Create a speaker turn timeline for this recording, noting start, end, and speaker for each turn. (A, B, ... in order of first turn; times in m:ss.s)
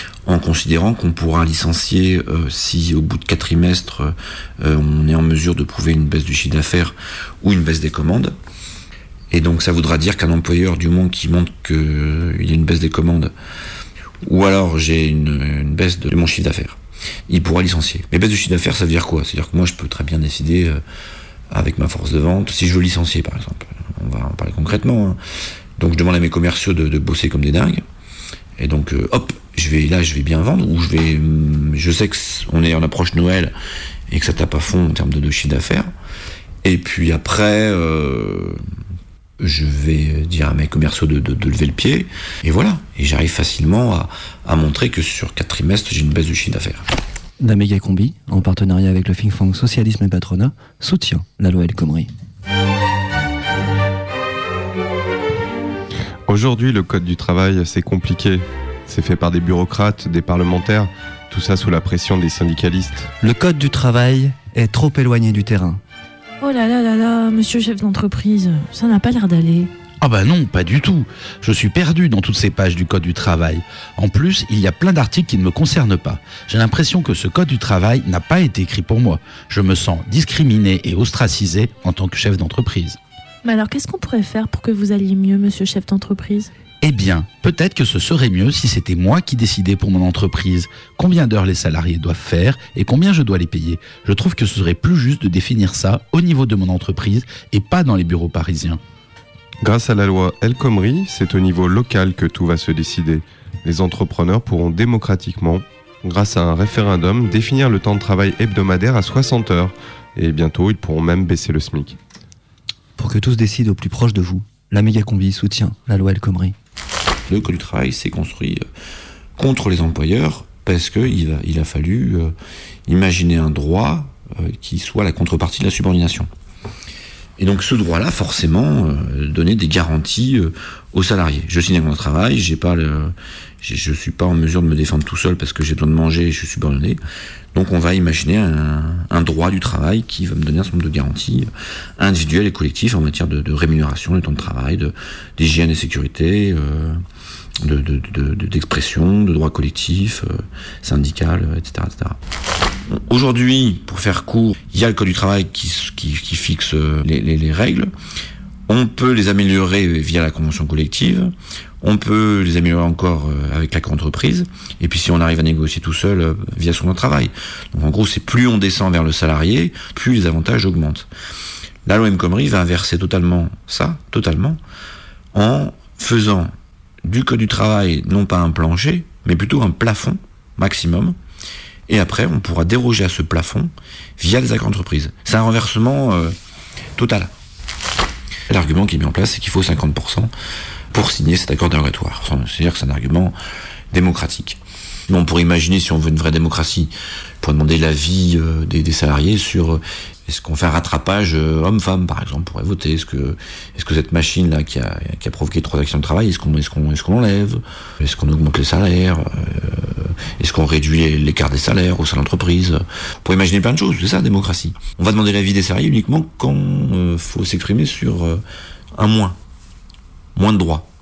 0:00.2-0:08.3 A
0:09.3-0:13.3 A
0:14.2-0:16.8 A
0:17.3-0:20.8 A
0:21.5-0:25.2 A
0:25.8-0:27.8 A
0:28.6-0:33.5 A
0:34.1-0:35.9 A
0:36.6-0:38.6 A
0:39.4-0:46.8 A
0:47.4-0:52.1 B
0:56.3-1:03.1 C
1:03.2-1:05.8 B
1:06.4-1:09.7 D
1:10.0-1:23.0 E
1:23.4-1:26.5 D
1:26.8-1:38.8 E
1:39.6-1:52.0 C
1:53.0-1:56.5 B
1:57.3-1:58.6 A
1:59.4-2:02.3 A
2:02.8-2:06.3 A
2:07.4-2:17.0 A
2:17.5-2:27.0 A
2:27.6-2:32.2 A
2:32.9-2:37.9 A
2:38.7-2:51.1 A
2:51.8-2:54.6 A
2:55.3-2:56.5 A
2:57.0-3:01.2 A
3:01.9-3:06.4 A
3:07.0-3:07.3 A
3:08.5-3:10.3 A
3:10.9-3:13.4 A
3:13.9-3:38.4 A
3:38.9-3:39.4 A
3:40.4-3:40.9 A